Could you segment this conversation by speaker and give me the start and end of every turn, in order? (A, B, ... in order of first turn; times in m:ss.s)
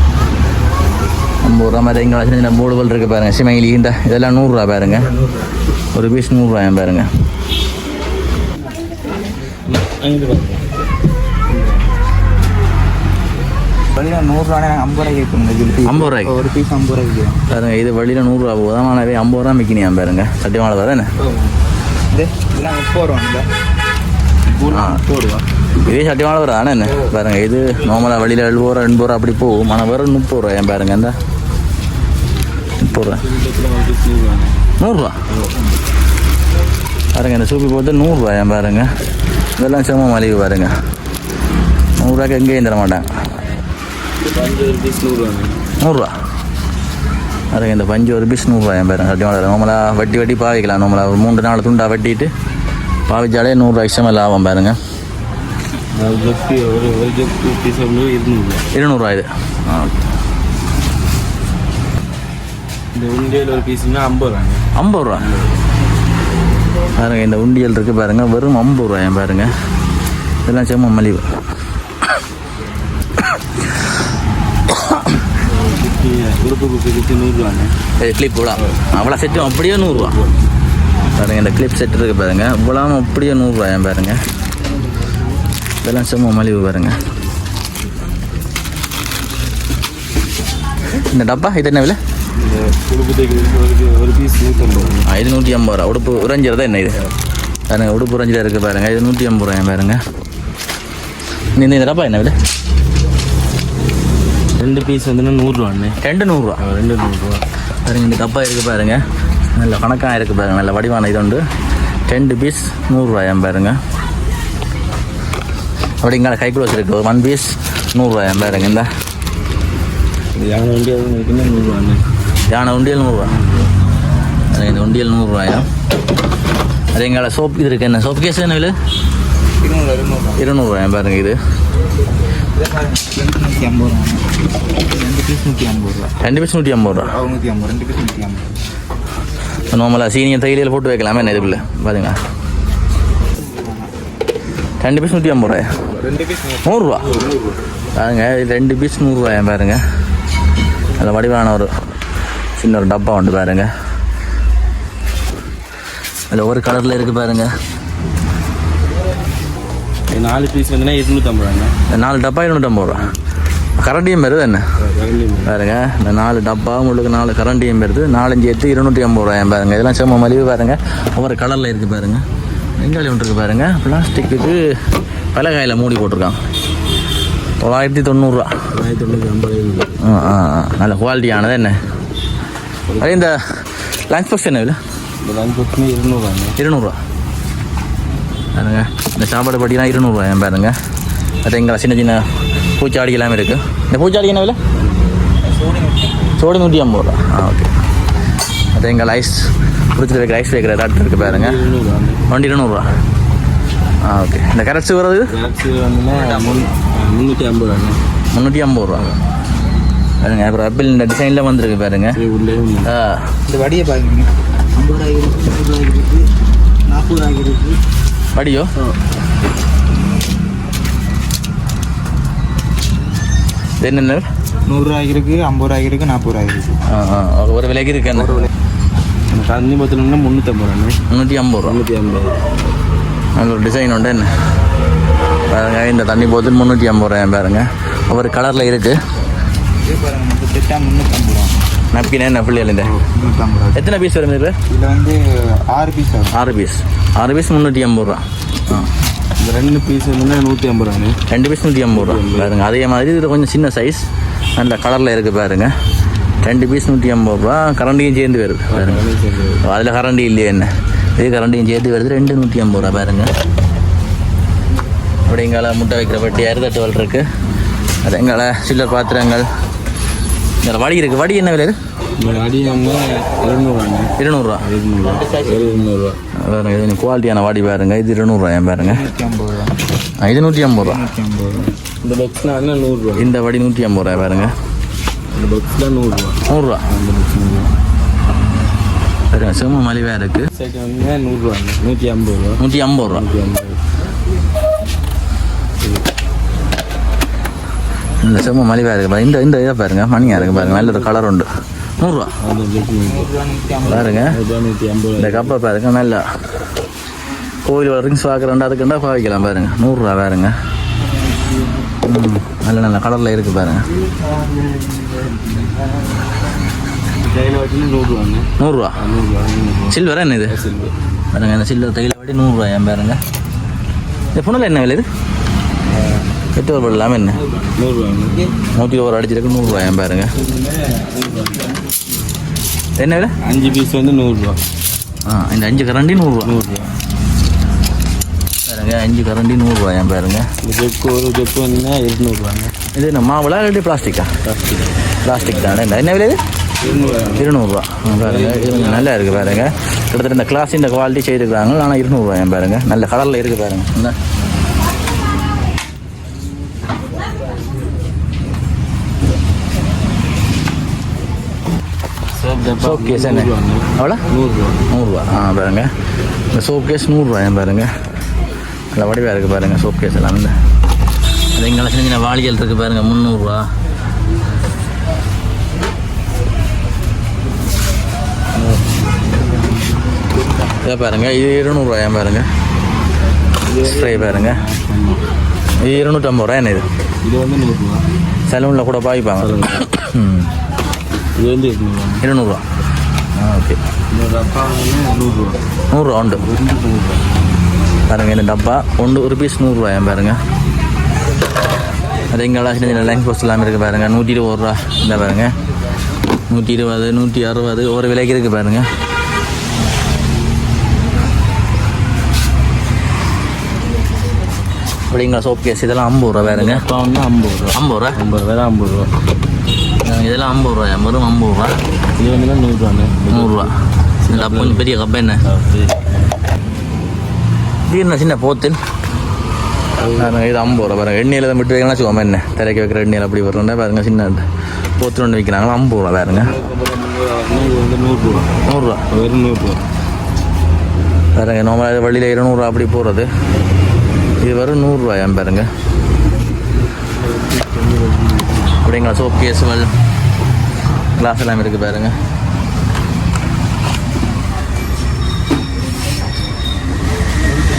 0:01.4-0:05.1 A
0:05.1-0:05.4 B
0:05.9-0:07.1 A
0:09.7-0:10.7 C
0:13.9-0:17.4 B
0:15.8-0:16.3 A
0:17.5-0:21.1 A
0:21.2-0:21.6 B
0:22.1-0:23.5 B
0:24.5-0:25.4 C
0:24.7-0:25.0 A
0:25.8-0:31.2 A
0:32.8-0:33.2 A
0:32.9-0:34.6 C
0:34.8-0:35.2 A
0:37.1-0:38.9 A
0:39.6-0:40.7 A
0:42.0-0:43.1 A
0:44.2-0:45.5 C
0:45.8-0:46.1 A
0:47.5-0:52.3 A
0:53.1-0:54.8 A
0:55.9-0:58.6 C
0:58.7-1:00.0 A
1:03.0-1:04.6 C
1:04.8-1:05.2 A
1:05.2-1:05.5 C
1:07.0-1:09.5 A
1:10.4-1:11.3 A
1:15.6-1:17.7 C
1:18.0-1:20.2 A
1:19.5-1:20.2 C
1:21.2-1:24.2 A
1:25.8-1:27.0 A
1:31.0-1:32.0 A
1:32.4-1:35.1 C
1:35.1-1:37.0 A
1:37.7-1:40.0 A
1:41.6-1:42.4 A
1:44.6-1:46.0 C
1:46.0-1:46.6 A
1:46.6-1:47.4 C
1:47.9-1:49.0 A
1:49.5-1:51.4 A
1:52.1-1:53.8 A
1:56.0-1:58.9 A
2:00.4-2:02.0 C
2:02.5-2:03.3 A
2:03.2-2:03.7 C
2:04.5-2:05.7 A
2:07.0-2:08.8 A
2:09.6-2:10.5 B
2:10.4-2:11.4 A
2:12.6-2:14.3 B
2:14.8-2:16.1 B
2:16.2-2:17.2 A
2:17.0-2:18.5 B
2:19.7-2:22.2 A
2:23.4-2:23.9 B
2:24.8-2:25.8 A
2:25.9-2:26.7 B
2:26.6-2:27.1 A
2:27.0-2:27.4 C
2:28.0-2:29.8 A
2:31.0-2:31.7 A
2:32.6-2:33.7 A
2:36.3-2:37.5 A
2:40.1-2:41.7 C
2:41.9-2:43.1 A
2:43.8-2:44.6 A
2:44.8-2:45.5 C
2:45.5-2:52.2 A
2:52.8-2:54.7 A
2:55.3-2:56.4 A
2:57.6-2:58.5 A
2:58.7-3:00.2 C
3:00.0-3:01.8 A
3:02.9-3:03.3 C
3:03.0-3:04.8 A
3:05.2-3:06.6 C
3:06.6-3:07.0 A
3:08.6-3:10.8 A
3:11.4-3:12.2 A
3:12.8-3:14.6 A
3:15.4-3:16.4 B
3:16.4-3:17.7 A
3:18.8-3:21.6 A
3:21.2-3:22.2 C
3:22.3-3:22.9 A
3:24.0-3:25.3 A
3:25.3-3:28.0 C
3:28.3-3:29.1 A
3:30.2-3:32.2 A
3:32.1-3:32.9 C
3:32.8-3:33.4 A
3:33.5-3:36.2 B
3:36.9-3:37.8 B
3:38.3-3:38.7 A
3:43.8-3:44.3 A
3:44.7-3:46.8 B
3:46.9-3:48.5 A
3:48.2-3:48.5 B
3:49.3-3:51.0 C
3:51.1-3:51.8 A
3:51.6-3:52.4 C
3:53.4-3:54.3 A
3:55.5-3:59.0 A
3:59.8-4:01.6 B
4:01.9-4:02.9 A
4:02.8-4:03.8 B
4:03.8-4:04.6 A
4:04.7-4:06.4 B
4:06.3-4:08.9 A
4:09.4-4:11.2 C
4:11.3-4:14.0 A
4:11.9-4:12.6 C
4:14.6-4:15.7 A
4:16.4-4:19.0 A
4:18.7-4:19.6 C
4:19.6-4:23.3 A
4:25.3-4:27.3 A
4:28.0-4:29.5 A
4:30.6-4:31.8 A
4:32.2-4:36.2 C
4:34.2-4:34.6 A
4:35.2-4:35.7 A
4:36.4-4:39.0 A
4:38.8-4:39.8 B
4:40.2-4:41.0 A
4:40.8-4:41.7 B
4:42.0-4:43.3 C
4:43.2-4:44.6 A
4:45.3-4:47.7 C
4:46.5-4:46.8 A
4:49.3-4:50.5 A
4:50.5-4:53.8 C
4:52.6-4:53.3 A
4:58.2-5:01.5 A
5:00.2-5:01.2 C
5:02.0-5:02.3 A
5:02.4-5:03.3 C
5:03.0-5:04.2 B
5:03.9-5:05.6 C
5:03.9-5:04.4 A
5:05.2-5:06.2 A
5:07.6-5:10.5 A
5:12.0-5:13.9 A
5:14.2-5:15.5 C
5:17.2-5:21.0 C
5:18.6-5:19.0 A
5:19.9-5:20.6 A
5:21.3-5:23.2 A
5:24.3-5:25.1 A
5:26.6-5:27.4 A
5:27.7-5:28.5 C
5:28.7-5:30.3 A
5:30.3-5:31.8 C
5:33.0-5:33.4 A
5:33.4-5:34.6 C
5:35.3-5:36.5 A
5:36.4-5:36.9 C
5:38.7-5:40.5 A
5:40.6-5:42.7 C
5:42.9-5:44.3 A
5:44.4-5:44.9 C
5:45.2-5:46.4 A
5:46.8-5:47.5 C
5:47.4-5:54.2 A
5:48.2-5:49.5 C
6:02.3-6:04.8 C
6:02.8-6:04.2 A
6:04.9-6:05.9 A
6:06.5-6:07.9 A
6:08.9-6:10.6 A
6:11.6-6:13.7 A
6:18.6-6:19.0 C
6:19.5-6:20.8 B
6:20.8-6:22.5 A
6:23.6-6:25.3 C
6:23.8-6:24.6 A
6:25.8-6:26.9 A
6:27.2-6:28.0 C
6:28.5-6:30.5 A
6:29.4-6:29.9 C
6:31.4-6:32.2 C
6:32.2-6:32.6 A
6:33.4-6:33.8 A
6:34.1-6:35.6 C
6:35.9-6:36.5 A
6:36.3-6:37.2 C
6:38.1-6:40.4 A
6:42.3-6:45.5 A
6:46.5-6:48.9 A
6:55.1-6:56.8 A
6:56.4-6:59.1 C
6:57.7-6:58.2 A
7:00.0-7:01.7 A
7:02.2-7:03.6 C
7:03.3-7:03.7 A
7:04.2-7:04.9 C
7:04.3-7:05.4 A
7:05.4-7:06.0 C
7:07.9-7:08.8 A
7:10.0-7:10.4 C
7:10.2-7:14.4 A
7:15.0-7:16.5 A
7:16.3-7:18.5 C
7:18.7-7:19.0 A
7:19.1-7:19.8 C
7:21.4-7:23.3 A
7:24.4-7:25.7 A
7:27.0-7:28.7 C
7:28.8-7:29.9 A
7:31.2-7:32.2 A